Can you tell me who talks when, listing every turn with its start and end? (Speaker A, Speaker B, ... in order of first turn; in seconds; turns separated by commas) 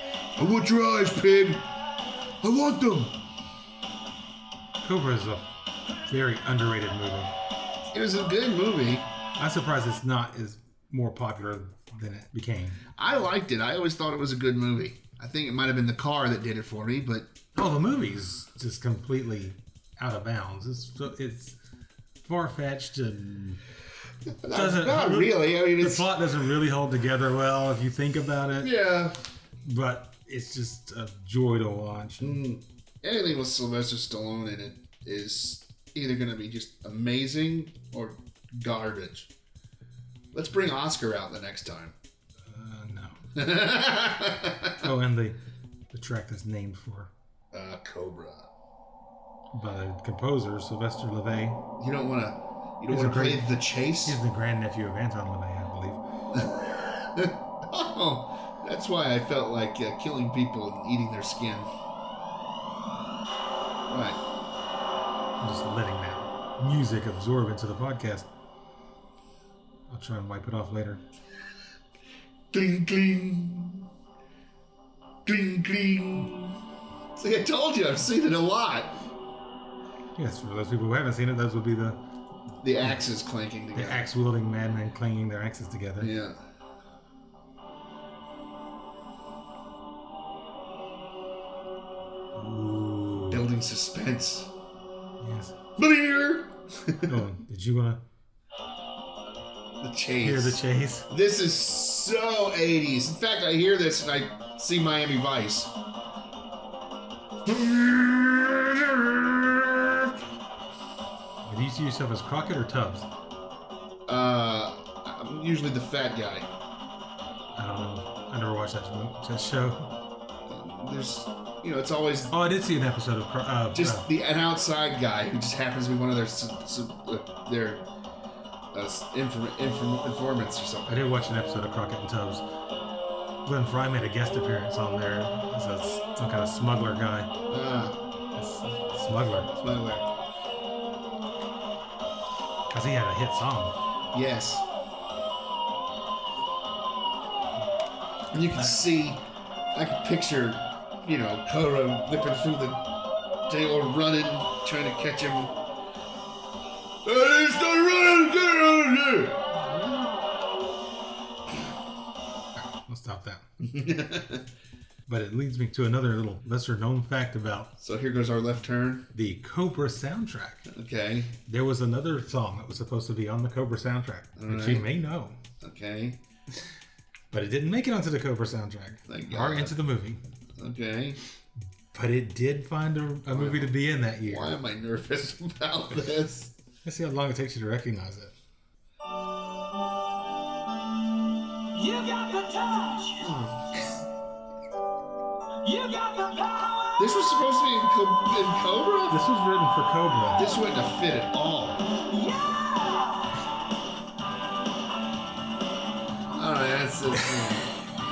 Speaker A: 0.3-1.6, Speaker A: 2.4-3.1, Speaker B: 4.8-5.5, Speaker B: 6.0-7.3, Speaker A: 7.9-9.1, Speaker B: 9.3-12.8, Speaker A: 12.9-17.3, Speaker B: 17.6-21.6, Speaker B: 22.2-23.6, Speaker A: 24.3-26.1, Speaker B: 24.5-28.7, Speaker A: 28.6-29.2, Speaker B: 29.6-32.4, Speaker A: 32.2-39.3, Speaker A: 40.3-41.9, Speaker B: 42.5-43.2, Speaker A: 43.3-44.9, Speaker B: 44.8-45.4, Speaker B: 45.9-47.1, Speaker A: 47.5-48.5, Speaker B: 49.5-51.6, Speaker A: 51.8-54.2, Speaker B: 52.9-56.0, Speaker A: 56.3-61.7, Speaker A: 63.9-64.2, Speaker B: 65.4-68.3, Speaker B: 69.9-71.0, Speaker A: 72.5-73.9, Speaker A: 75.2-76.6, Speaker A: 77.2-79.0, Speaker B: 80.1-82.0, Speaker A: 82.6-84.0, Speaker B: 83.7-86.1, Speaker A: 86.0-86.4, Speaker B: 92.3-93.4, Speaker A: 93.3-94.5, Speaker B: 95.2-95.5, Speaker A: 95.8-97.2, Speaker B: 97.1-98.0, Speaker A: 99.8-105.7, Speaker B: 100.2-101.1, Speaker A: 107.4-110.1, Speaker B: 111.4-113.1, Speaker A: 114.1-116.5, Speaker B: 117.5-119.9, Speaker A: 120.5-122.3, Speaker B: 122.3-124.1, Speaker A: 123.7-127.9, Speaker A: 128.7-131.1, Speaker B: 130.9-132.4, Speaker B: 133.4-137.3, Speaker A: 137.5-138.0, Speaker B: 138.3-139.5, Speaker A: 139.5-140.0, Speaker B: 142.7-143.7, Speaker A: 144.1-144.6, Speaker A: 148.3-149.2, Speaker A: 149.7-152.9, Speaker A: 153.5-155.5, Speaker A: 157.0-159.5, Speaker B: 162.6-163.4, Speaker A: 163.6-164.4, Speaker B: 165.1-167.7, Speaker A: 167.8-169.1, Speaker B: 169.1-170.7, Speaker A: 170.7-171.4, Speaker B: 171.4-175.4, Speaker A: 174.4-174.9, Speaker A: 175.6-176.2, Speaker B: 177.3-180.2, Speaker A: 179.1-179.8, Speaker A: 180.6-181.2, Speaker B: 181.9-184.6, Speaker A: 183.3-183.7, Speaker A: 184.2-186.5, Speaker B: 186.8-188.3, Speaker C: 191.7-193.2, Speaker A: 193.2-193.7, Speaker C: 195.6-196.9, Speaker A: 196.9-199.2, Speaker B: 199.1-200.6, Speaker A: 200.4-201.9, Speaker C: 202.1-203.2, Speaker A: 206.3-207.7